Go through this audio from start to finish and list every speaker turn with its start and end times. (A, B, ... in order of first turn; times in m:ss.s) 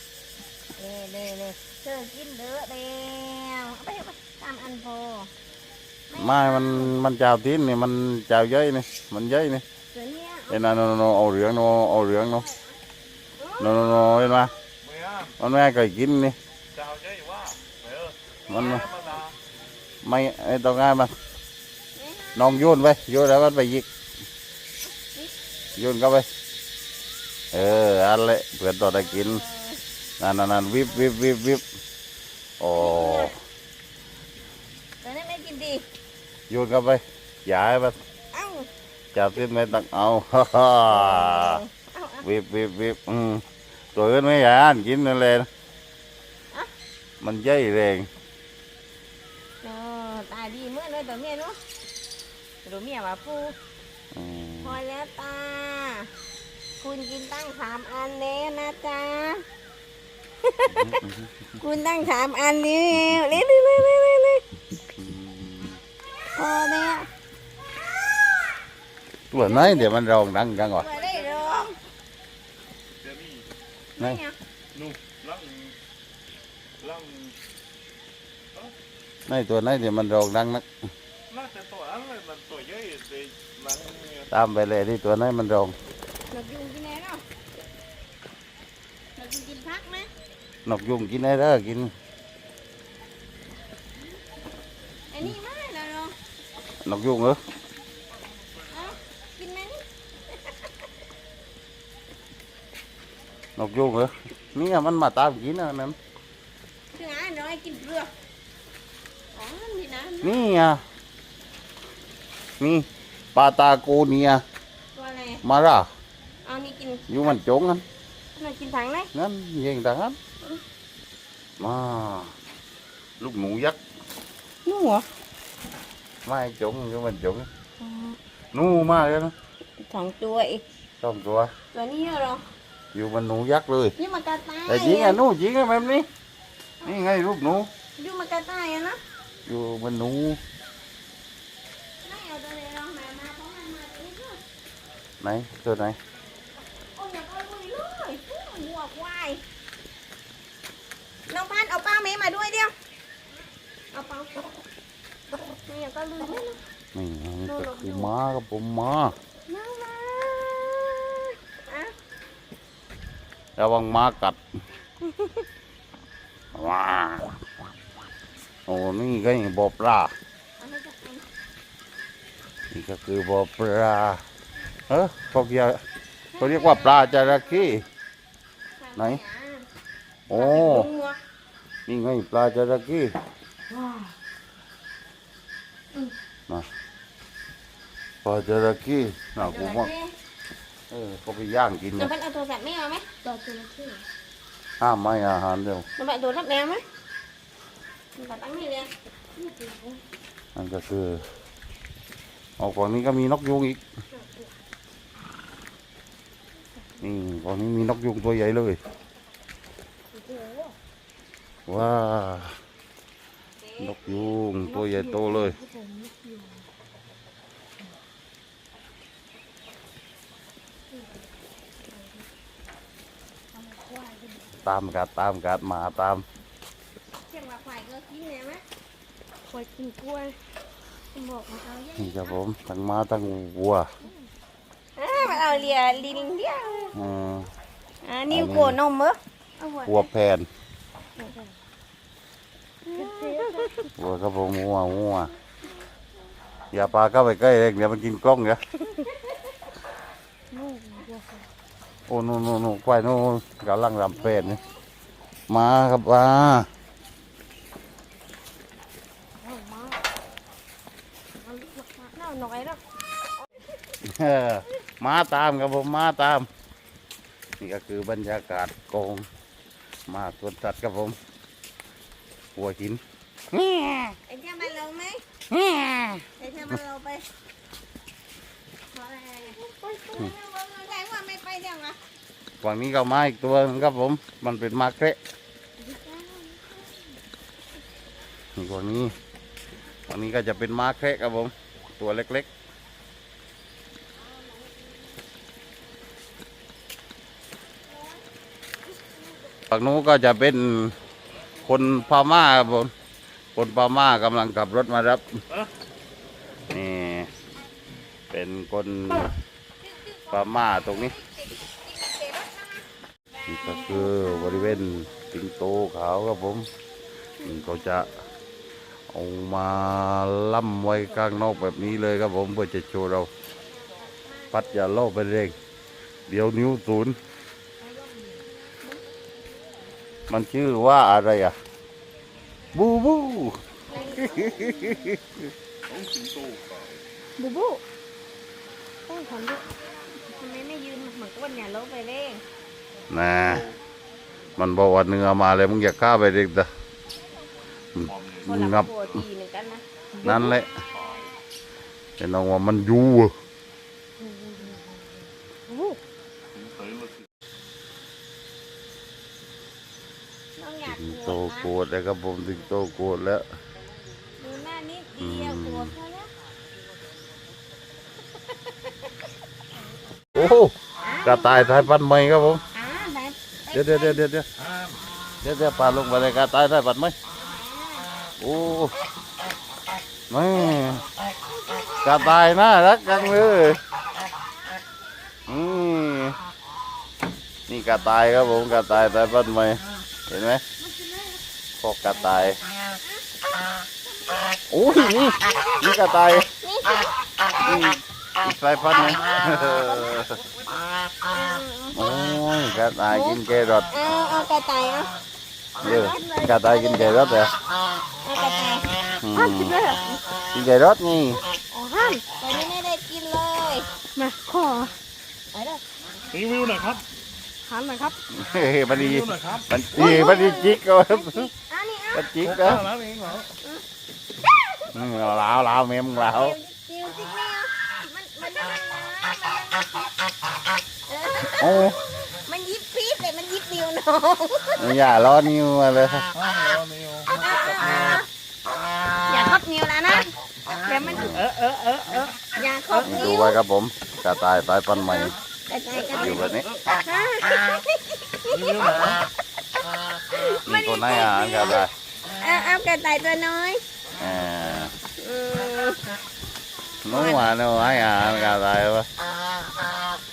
0:00.8-0:05.3 A
0:06.1-0:07.0 A
0:06.2-0:09.6 B
0:09.9-0:10.6 A
0:10.5-0:12.5 B
0:13.4-0:13.9 A
0:13.6-0:14.5 B
0:14.9-0:15.3 C
0:15.4-0:16.4 B
0:16.8-0:18.1 C
0:18.5-0:18.9 B
0:18.5-0:19.2 A
0:20.0-0:21.1 B
0:22.0-0:22.7 A
0:22.4-0:23.9 B
0:25.0-0:25.3 A
0:25.8-0:26.3 B
0:27.5-0:29.4 B
0:28.8-0:29.8 A
0:30.2-0:31.6 B
0:30.9-0:31.1 A
0:32.6-0:33.3 B
0:32.7-0:33.4 A
0:35.0-0:35.8 A
0:36.5-0:38.0 B
0:38.3-0:38.7 A
0:39.2-0:41.6 B
0:40.9-0:42.3 A
0:42.2-0:43.4 B
0:44.0-0:45.5 B
0:47.2-0:48.1 B
0:49.6-0:51.6 A
0:52.6-0:53.6 A
0:54.1-0:54.8 B
0:54.6-0:56.1 A
0:56.8-0:59.4 A
1:00.4-1:01.0 A
1:00.7-1:01.5 B
1:01.6-1:04.4 A
1:05.0-1:05.8 B
1:06.4-1:07.1 A
1:09.3-1:10.9 B
1:09.3-1:09.9 A
1:10.6-1:11.8 A
1:13.0-1:13.4 C
1:14.0-1:14.4 A
1:14.8-1:15.7 C
1:16.8-1:17.3 C
1:19.3-1:20.6 B
1:21.3-1:24.3 C
1:24.3-1:25.8 B
1:26.3-1:27.2 A
1:29.2-1:30.1 A
1:30.6-1:31.9 B
1:35.1-1:36.2 A
1:36.8-1:37.4 B
1:38.6-1:39.8 A
1:43.6-1:46.0 B
1:47.0-1:48.1 A
1:49.4-1:50.4 A
1:50.2-1:50.8 B
1:52.6-1:54.4 B
1:55.0-1:55.4 A
1:55.4-1:55.9 B
1:56.4-1:57.2 A
1:57.1-1:57.8 B
1:58.4-1:59.1 A
1:59.1-2:00.2 B
2:01.6-2:02.3 B
2:03.2-2:03.8 B
2:04.6-2:05.1 A
2:06.2-2:07.5 B
2:07.8-2:08.2 A
2:08.5-2:09.3 B
2:09.8-2:10.6 A
2:11.0-2:11.5 B
2:11.7-2:12.4 A
2:12.9-2:14.0 B
2:14.0-2:15.2 A
2:14.7-2:16.1 B
2:16.8-2:17.7 B
2:18.0-2:19.0 A
2:19.5-2:20.4 B
2:22.0-2:24.4 A
2:25.2-2:26.0 B
2:27.0-2:29.4 A
2:31.3-2:32.7 A
2:33.9-2:34.5 A
2:35.7-2:36.6 A
2:36.9-2:39.1 B
2:37.5-2:38.1 A
2:39.5-2:41.9 A
2:43.6-2:44.4 B
2:45.1-2:45.4 A
2:46.5-2:47.4 B
2:48.7-2:50.1 B
2:50.6-2:51.3 A
2:52.7-2:54.2 B
2:54.9-2:55.8 B
2:56.3-2:57.8 A
2:56.4-2:57.8 B
2:58.8-2:59.7 A
3:00.3-3:00.9 B
3:00.3-3:01.2 A
3:01.9-3:03.1 B
3:08.2-3:09.9 B
3:09.4-3:10.1 A
3:10.9-3:12.1 B
3:12.0-3:13.1 A
3:13.3-3:14.0 D
3:14.8-3:15.9 B
3:16.0-3:16.8 A
3:18.2-3:18.9 A
3:20.6-3:21.3 B
3:22.6-3:23.8 B
3:27.0-3:28.8 B
3:30.3-3:30.6 D
3:31.7-3:32.6 B
3:33.6-3:34.4 A
3:33.8-3:35.6 B
3:34.7-3:36.6 D
3:44.6-3:46.2 B
3:47.3-3:48.6 A
3:49.8-3:50.2 D
3:51.2-3:52.4 A
3:52.0-3:53.9 B
3:55.0-3:57.0 A
3:56.9-3:57.5 B
3:58.0-4:00.1 A
3:58.3-3:58.8 B
3:59.9-4:00.5 B
4:02.9-4:03.9 A
4:03.0-4:03.6 D
4:04.0-4:05.3 B
4:06.7-4:08.6 B
4:10.7-4:11.1 D
4:12.1-4:14.6 B
4:14.2-4:14.6 A
4:15.5-4:16.7 B
4:19.5-4:20.0 A
4:21.7-4:22.8 A
4:24.0-4:26.5 B
4:27.6-4:29.3 B
4:30.1-4:31.2 B
4:32.6-4:33.0 B
4:33.5-4:34.2 B
4:34.3-4:35.2 A
4:35.5-4:36.3 B
4:36.4-4:37.3 A
4:38.9-4:42.0 A
4:42.6-4:45.2 B
4:45.8-4:46.8 A
4:48.6-4:49.2 B
4:50.1-4:52.5 B
4:59.7-5:01.0 B
5:01.6-5:02.9 B
5:03.6-5:05.2 B
5:06.7-5:07.3 B
5:08.3-5:09.3 B
5:09.9-5:12.8 A
5:10.3-5:11.2 B
5:13.5-5:16.7 B
5:13.7-5:14.8 A
5:17.4-5:17.8 A
5:17.4-5:18.2 B
5:19.1-5:23.3 B
5:23.7-5:25.0 A
5:24.5-5:25.6 B
5:26.3-5:27.2 B
5:30.3-5:31.5 B
5:32.7-5:35.4 B
5:33.9-5:35.0 A
5:35.9-5:37.0 C
5:37.4-5:37.8 A
5:39.1-5:39.6 A
5:40.3-5:42.4 A
5:43.1-5:43.7 B
5:44.6-5:46.7 B
5:48.0-5:49.2 B
5:48.4-5:49.8 A
5:50.2-5:50.5 D
5:50.2-5:50.8 B
5:52.2-5:53.3 B
5:56.6-5:57.2 C
6:00.6-6:01.7 A
6:00.8-6:03.4 B
6:04.4-6:06.3 A
6:05.2-6:05.9 B
6:10.4-6:10.7 B
6:11.0-6:11.9 A
6:11.2-6:12.6 B
6:12.7-6:14.3 A
6:13.7-6:14.5 B
6:15.4-6:17.2 B
6:17.4-6:18.8 A
6:18.4-6:18.9 B
6:20.3-6:21.1 B
6:20.5-6:22.3 A
6:22.0-6:23.8 B
6:25.5-6:26.4 B
6:27.7-6:30.6 B
6:29.0-6:29.2 A
6:31.8-6:32.6 B
6:34.7-6:36.5 B
6:36.6-6:37.8 A
6:37.6-6:40.4 B
6:39.7-6:40.2 A
6:41.3-6:42.2 A
6:41.9-6:43.9 B
6:43.1-6:45.1 A
6:45.8-6:47.5 B
6:45.8-6:47.2 A
6:48.2-6:50.2 A
6:49.2-6:49.8 B
6:50.5-6:51.4 B
6:51.7-6:53.9 A
6:54.2-6:54.6 D
6:55.5-6:55.8 A
6:56.4-6:57.0 C
6:57.7-6:58.2 A
6:58.3-7:01.5 B
6:59.0-6:59.5 C
6:59.9-7:02.3 A
7:02.1-7:02.9 B
7:02.6-7:03.5 C
7:04.9-7:06.6 B
7:06.3-7:10.3 A
7:11.1-7:14.9 A
7:11.6-7:12.0 B
7:14.8-7:16.3 B
7:16.5-7:17.3 C
7:17.3-7:18.3 A
7:17.8-7:18.2 C
7:19.3-7:23.6 A
7:21.0-7:21.4 B
7:23.0-7:25.3 B
7:25.0-7:29.1 A
7:26.2-7:26.7 B
7:28.6-7:29.2 C
7:30.3-7:31.9 A
7:30.7-7:31.9 B
7:32.4-7:33.8 A
7:34.2-7:34.9 B
7:35.2-7:36.0 A
7:37.0-7:39.1 B
7:37.0-7:37.5 A